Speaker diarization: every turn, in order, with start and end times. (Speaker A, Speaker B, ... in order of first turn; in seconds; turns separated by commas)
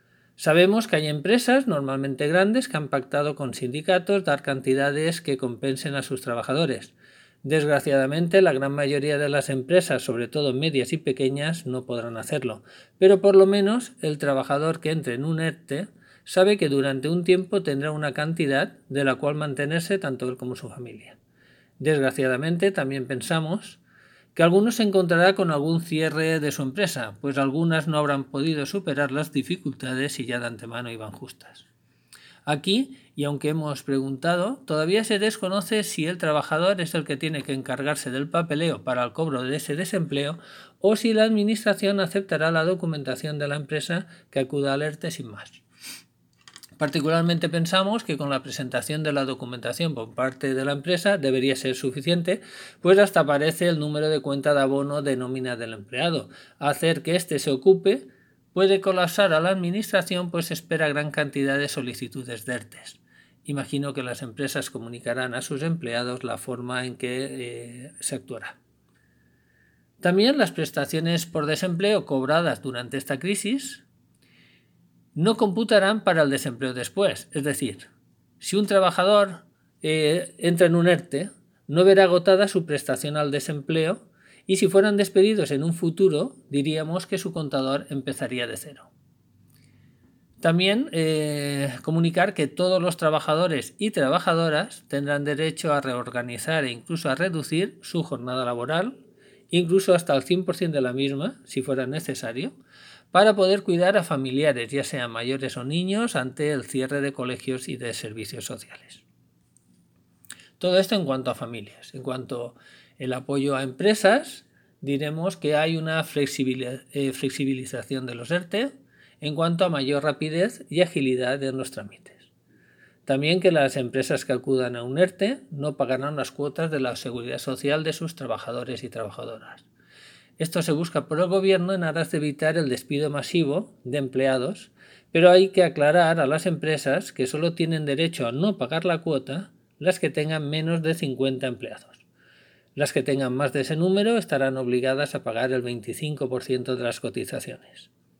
Speaker A: 0.4-21.2, Speaker A: 21.8-23.8, Speaker A: 24.4-31.7, Speaker A: 32.5-45.6, Speaker A: 46.8-68.6, Speaker A: 70.0-73.8, Speaker A: 75.2-77.9, Speaker A: 78.4-88.9, Speaker A: 90.4-102.6, Speaker A: 103.1-109.0, Speaker A: 110.6-122.3, Speaker A: 123.1-129.7, Speaker A: 130.4-142.0, Speaker A: 142.8-147.9